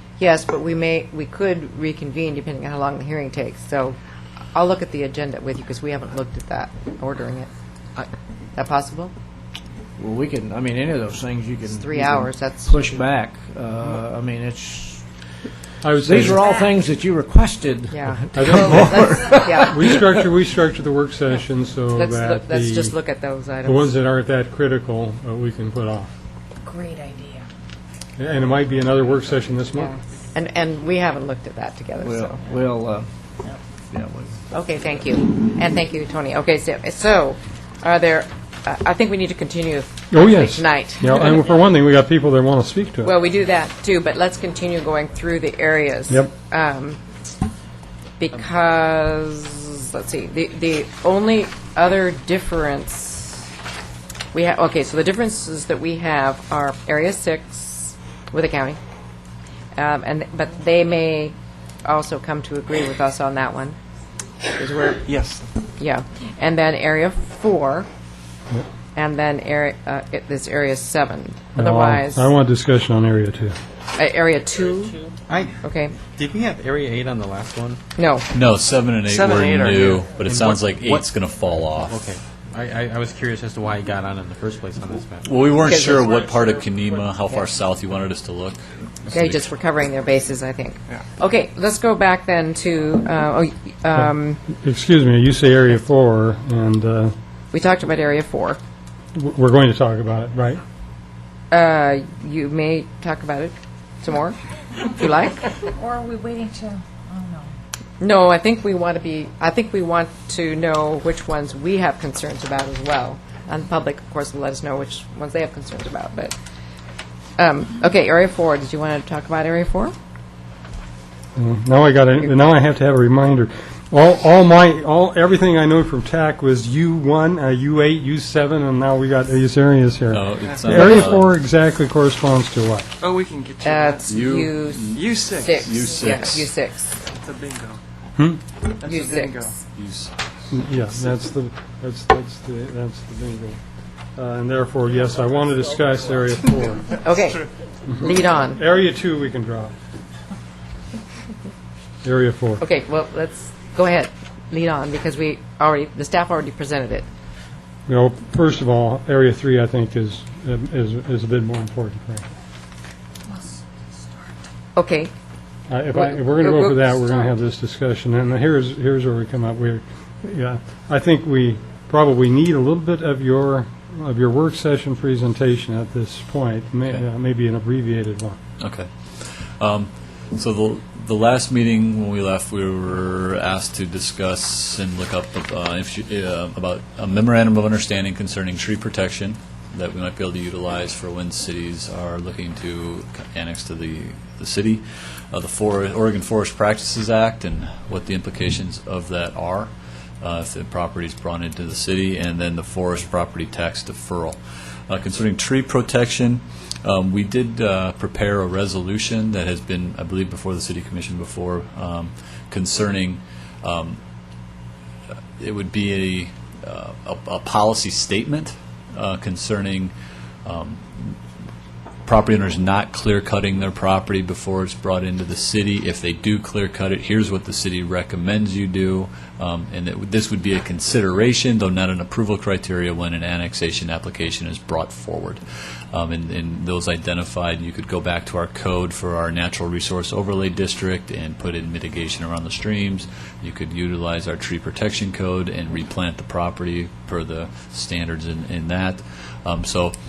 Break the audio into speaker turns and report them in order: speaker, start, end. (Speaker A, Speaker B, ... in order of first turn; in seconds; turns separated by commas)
Speaker A: 0.2-4.0, Speaker A: 4.5-7.5, Speaker A: 8.5-9.1, Speaker B: 10.0-15.0, Speaker A: 11.7-13.0, Speaker C: 15.8-16.5, Speaker B: 16.0-19.9, Speaker A: 17.9-19.8, Speaker C: 18.3-22.9, Speaker A: 21.9-23.9, Speaker C: 23.6-26.1, Speaker D: 26.6-27.4, Speaker C: 28.2-29.9, Speaker A: 29.7-32.4, Speaker B: 32.0-33.1, Speaker B: 33.9-34.4, Speaker A: 34.5-41.4, Speaker C: 40.1-43.1, Speaker A: 43.0-47.0, Speaker A: 48.2-53.5, Speaker A: 54.3-58.8, Speaker A: 59.8-63.8, Speaker A: 64.5-65.2, Speaker E: 65.1-65.4, Speaker A: 65.8-67.9, Speaker A: 68.9-72.3, Speaker C: 71.5-73.5, Speaker A: 73.9-75.0, Speaker F: 75.3-75.6, Speaker A: 75.6-76.0, Speaker F: 76.1-77.8, Speaker A: 78.0-78.3, Speaker G: 78.3-82.1, Speaker E: 79.1-80.0, Speaker F: 80.2-81.1, Speaker F: 81.9-85.3, Speaker G: 85.2-89.5, Speaker A: 85.6-86.1, Speaker E: 86.1-86.4, Speaker A: 89.1-94.4, Speaker C: 94.6-97.1, Speaker A: 97.5-98.6, Speaker C: 99.1-100.6, Speaker A: 101.5-105.7, Speaker D: 105.7-107.5, Speaker A: 108.0-116.3, Speaker A: 117.4-119.9, Speaker C: 121.3-132.9, Speaker G: 130.1-131.3, Speaker E: 133.0-134.1, Speaker A: 133.6-136.9, Speaker G: 134.1-136.5, Speaker E: 134.9-135.8, Speaker E: 137.1-137.8, Speaker C: 138.2-138.4, Speaker E: 138.7-139.6, Speaker A: 138.8-139.5, Speaker G: 139.8-140.1, Speaker C: 140.5-143.6, Speaker C: 144.2-147.0, Speaker A: 147.0-148.6, Speaker C: 147.9-149.7, Speaker C: 152.0-152.6, Speaker A: 152.6-157.1, Speaker C: 157.9-162.2, Speaker A: 164.7-165.1, Speaker C: 165.7-178.4, Speaker A: 165.9-166.9, Speaker G: 178.6-204.4, Speaker G: 204.9-214.0, Speaker G: 215.4-219.9, Speaker G: 220.4-221.2, Speaker G: 222.1-235.4, Speaker G: 235.9-249.9